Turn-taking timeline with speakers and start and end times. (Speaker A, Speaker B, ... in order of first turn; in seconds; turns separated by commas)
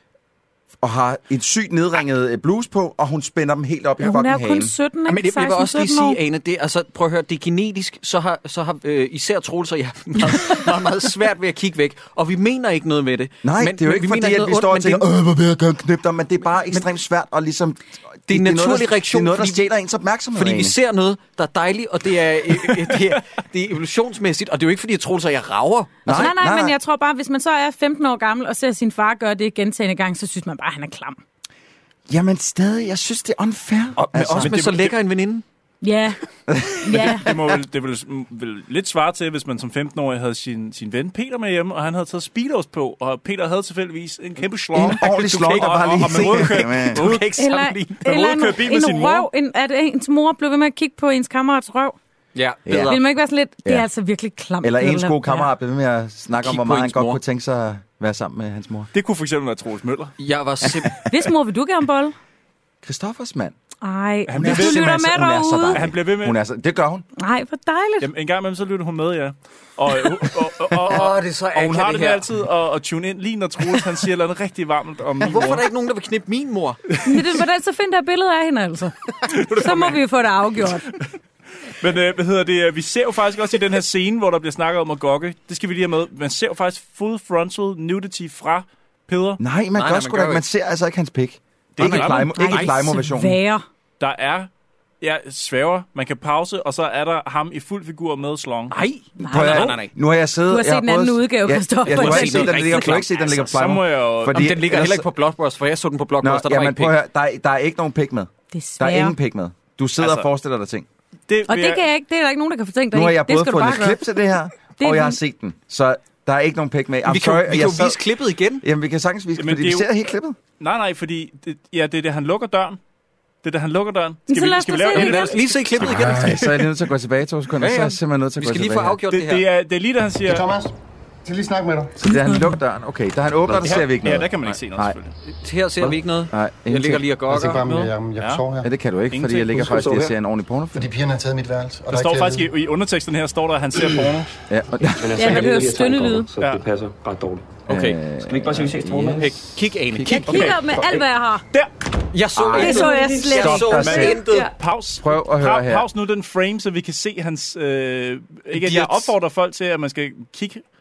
Speaker A: 0.8-4.7, Speaker B: 4.0-6.2, Speaker C: 5.1-15.1, Speaker A: 13.4-20.8, Speaker C: 18.3-19.6, Speaker C: 20.3-26.3, Speaker A: 26.1-26.8, Speaker B: 26.1-31.2, Speaker A: 32.1-34.6, Speaker C: 34.0-35.5, Speaker D: 34.3-34.9, Speaker B: 35.8-36.2, Speaker A: 36.5-37.6, Speaker B: 36.8-37.3, Speaker D: 37.2-47.3, Speaker A: 44.7-47.1, Speaker C: 45.0-48.1, Speaker B: 47.4-52.0, Speaker D: 48.1-49.3, Speaker C: 52.4-53.0, Speaker A: 52.7-53.0, Speaker B: 52.7-55.5, Speaker A: 54.6-58.9, Speaker C: 56.4-57.2, Speaker D: 58.9-60.1, Speaker C: 60.2-61.0, Speaker B: 61.1-62.1, Speaker A: 62.8-63.6, Speaker B: 63.8-65.9, Speaker D: 64.3-64.9, Speaker A: 64.4-67.1, Speaker D: 65.7-66.4, Speaker B: 67.2-68.1, Speaker D: 68.0-75.7, Speaker C: 70.8-72.2, Speaker C: 75.2-76.8, Speaker D: 77.0-77.2, Speaker B: 77.0-80.9, Speaker D: 79.5-80.0, Speaker D: 81.8-89.4, Speaker A: 89.4-93.4, Speaker C: 89.8-90.5, Speaker D: 91.8-92.5, Speaker C: 91.8-92.7, Speaker B: 92.1-93.7, Speaker D: 94.0-94.5, Speaker D: 95.0-98.8, Speaker C: 98.7-99.9, Speaker A: 99.2-105.1, Speaker B: 99.2-99.7, Speaker B: 100.5-102.8, Speaker C: 101.9-103.4, Speaker D: 103.3-104.5, Speaker C: 104.3-107.0, Speaker A: 106.2-110.9, Speaker B: 108.5-109.1, Speaker D: 111.3-111.8, Speaker B: 111.5-114.0, Speaker A: 112.9-118.0, Speaker B: 114.8-115.2, Speaker C: 117.1-118.6, Speaker A: 118.6-120.4, Speaker D: 119.4-119.9, Speaker D: 120.6-122.8, Speaker D: 123.4-125.9, Speaker B: 124.3-125.3, Speaker C: 124.9-126.6, Speaker A: 125.8-129.0, Speaker C: 127.6-129.4, Speaker D: 129.1-130.5, Speaker E: 130.2-130.7, Speaker E: 131.2-132.0, Speaker A: 132.0-135.0, Speaker B: 132.1-132.5, Speaker D: 133.5-135.2, Speaker C: 135.3-137.9, Speaker A: 135.8-137.1, Speaker E: 137.3-138.7, Speaker A: 138.6-140.9, Speaker D: 139.1-139.8, Speaker F: 139.5-140.2, Speaker E: 140.7-142.5, Speaker D: 141.9-144.3, Speaker A: 144.5-145.5, Speaker F: 145.0-147.6, Speaker B: 145.1-146.3, Speaker D: 146.4-146.6, Speaker A: 147.7-150.6, Speaker C: 147.7-148.0, Speaker F: 148.2-149.3, Speaker C: 149.1-150.5, Speaker B: 150.1-151.4, Speaker D: 150.3-150.6, Speaker C: 152.1-154.5, Speaker A: 152.3-154.2, Speaker B: 152.6-154.2, Speaker D: 153.8-160.6, Speaker A: 155.0-155.9, Speaker C: 158.5-159.1